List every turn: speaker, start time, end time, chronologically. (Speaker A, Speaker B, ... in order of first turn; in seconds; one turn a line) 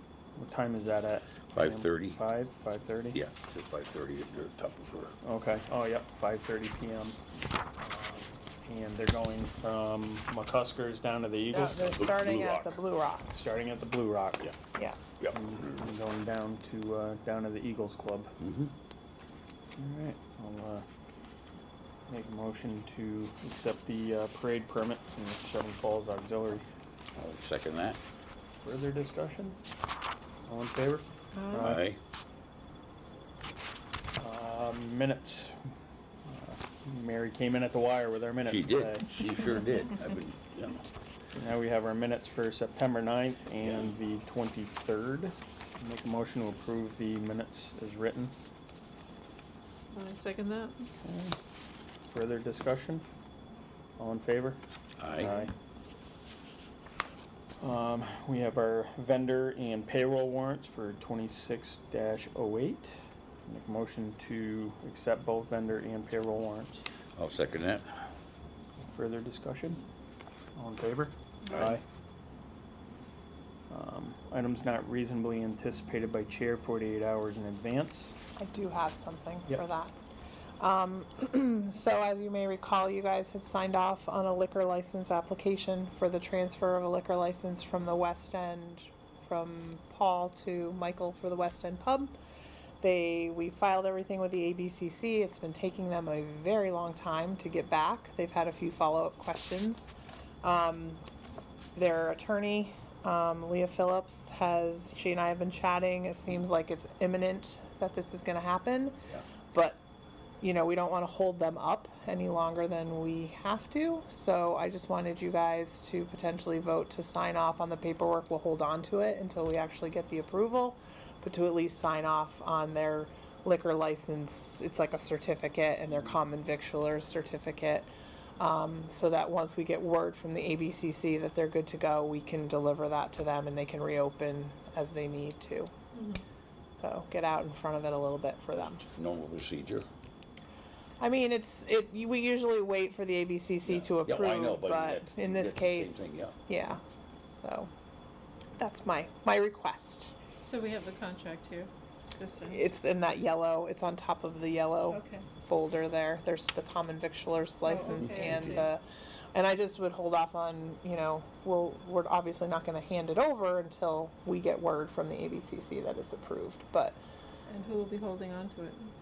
Speaker A: 0.3-3.2
Speaker B: 1.5-2.2
Speaker B: 3.1-5.1
Speaker A: 5.2-7.2
Speaker A: 7.8-12.1
Speaker C: 11.5-13.3
Speaker B: 11.8-12.8
Speaker A: 13.3-14.5
Speaker B: 15.2-15.7
Speaker A: 15.3-18.3
Speaker B: 18.4-18.7
Speaker A: 19.8-20.8
Speaker A: 22.1-26.7
Speaker B: 27.1-28.0
Speaker A: 28.6-29.6
Speaker A: 30.5-31.8
Speaker D: 31.3-31.8
Speaker B: 31.6-32.0
Speaker A: 34.1-35.6
Speaker A: 36.2-39.1
Speaker B: 38.4-40.9
Speaker A: 41.3-48.4
Speaker D: 49.9-50.9
Speaker A: 51.0-51.4
Speaker A: 52.1-53.0
Speaker A: 54.0-54.6
Speaker B: 55.0-55.3
Speaker A: 55.1-55.5
Speaker A: 57.6-62.9
Speaker A: 63.5-66.8
Speaker B: 67.2-67.8
Speaker A: 68.9-69.8
Speaker A: 70.5-71.8
Speaker B: 71.5-71.8
Speaker A: 73.7-78.1
Speaker C: 78.4-79.9
Speaker C: 80.6-92.1
Speaker C: 92.8-101.0
Speaker C: 101.8-109.0
Speaker C: 109.5-109.8
Speaker C: 110.4-135.7
Speaker D: 135.9-136.2
Speaker C: 136.8-138.8
Speaker B: 138.9-139.8
Speaker C: 141.0-146.8
Speaker B: 143.7-146.3
Speaker C: 147.3-147.7
Speaker C: 148.6-150.1
Speaker D: 150.4-152.6
Speaker C: 152.5-158.8
Speaker D: 154.9-155.2
Speaker D: 157.6-158.6
Speaker B: 157.9-158.7
Speaker C: 159.3-167.0
Speaker D: 167.5-168.9